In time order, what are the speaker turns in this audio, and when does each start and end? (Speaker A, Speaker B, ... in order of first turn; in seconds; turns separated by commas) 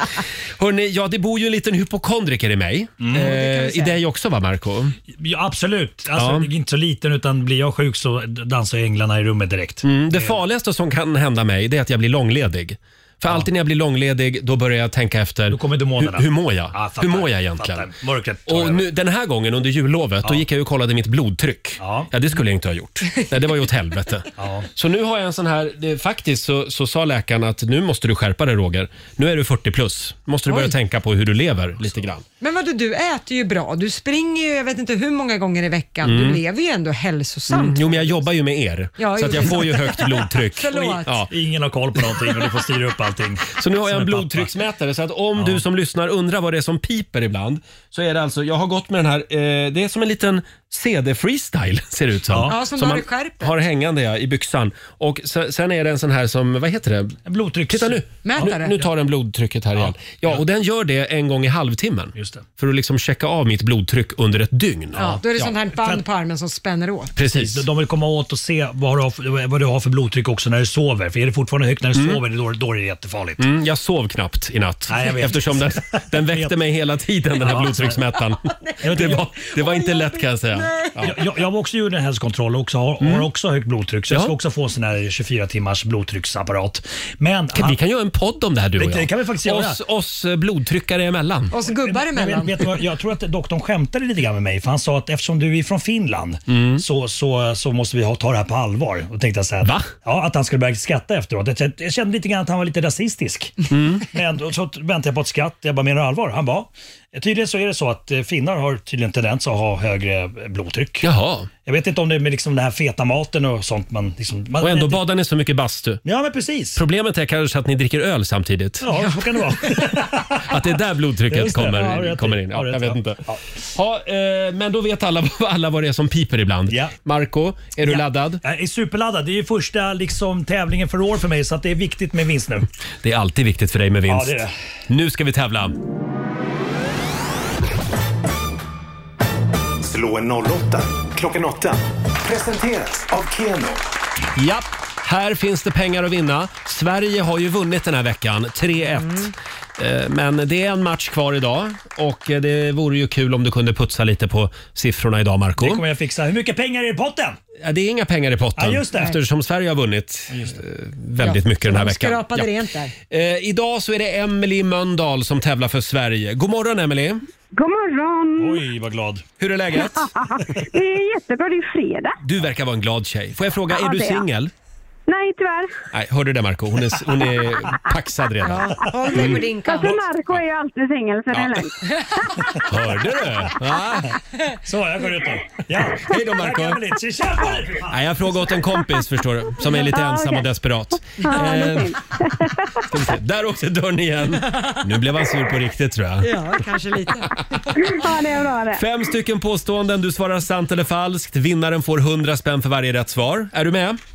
Speaker A: 0.6-5.0, Speaker B: 3.0-3.3, Speaker C: 3.1-4.0, Speaker B: 5.2-10.4, Speaker A: 6.1-6.5, Speaker A: 9.8-17.9, Speaker B: 15.5-18.9, Speaker A: 18.4-32.2, Speaker B: 21.8-22.1, Speaker B: 24.4-24.7, Speaker C: 32.4-38.2, Speaker A: 36.0-36.4, Speaker A: 37.5-41.3, Speaker C: 39.0-41.2, Speaker B: 40.7-44.5, Speaker A: 43.5-65.5, Speaker B: 52.3-52.5, Speaker C: 52.5-53.5, Speaker B: 57.2-58.5, Speaker C: 58.2-58.8, Speaker B: 59.7-60.4, Speaker B: 62.1-62.4, Speaker C: 65.0-67.1, Speaker B: 65.8-66.0, Speaker A: 67.2-67.7, Speaker B: 67.3-73.4, Speaker A: 71.9-72.2, Speaker A: 73.4-81.2, Speaker B: 74.9-76.5, Speaker B: 77.3-78.0, Speaker C: 78.7-81.2, Speaker B: 78.8-79.3, Speaker B: 81.0-87.8, Speaker A: 83.0-83.3, Speaker A: 84.1-84.3, Speaker A: 87.5-91.5, Speaker B: 88.8-89.8, Speaker C: 91.5-92.8, Speaker B: 91.7-103.6, Speaker A: 96.5-96.8, Speaker A: 99.6-99.9, Speaker A: 103.7-104.1, Speaker B: 104.1-111.1, Speaker A: 111.0-111.5, Speaker B: 111.6-115.0, Speaker A: 114.6-116.0, Speaker B: 116.0-116.8, Speaker A: 116.7-119.1, Speaker B: 118.8-120.6, Speaker A: 120.4-128.4, Speaker B: 121.3-123.4, Speaker B: 126.7-126.9, Speaker B: 127.8-132.7, Speaker A: 133.0-135.8, Speaker B: 134.1-134.5, Speaker D: 139.8-143.8, Speaker A: 144.3-155.8, Speaker B: 155.6-157.4, Speaker A: 157.6-162.5, Speaker B: 158.6-159.1, Speaker B: 160.3-160.6, Speaker C: 161.2-162.9, Speaker A: 163.1-167.2, Speaker E: 167.5-168.6, Speaker B: 168.4-169.2, Speaker A: 169.4-170.1, Speaker E: 170.0-172.2, Speaker A: 172.2-174.5, Speaker E: 173.7-174.2, Speaker E: 175.1-175.7, Speaker A: 175.9-179.4, Speaker C: 178.4-180.0, Speaker E: 179.2-181.7, Speaker A: 181.3-181.6, Speaker A: 182.7-184.2, Speaker B: 184.7-188.1, Speaker A: 185.9-186.8, Speaker A: 187.9-192.0, Speaker E: 189.8-190.4, Speaker E: 191.2-192.5, Speaker A: 192.9-196.4, Speaker C: 196.2-197.9, Speaker E: 197.8-198.8, Speaker A: 198.7-204.0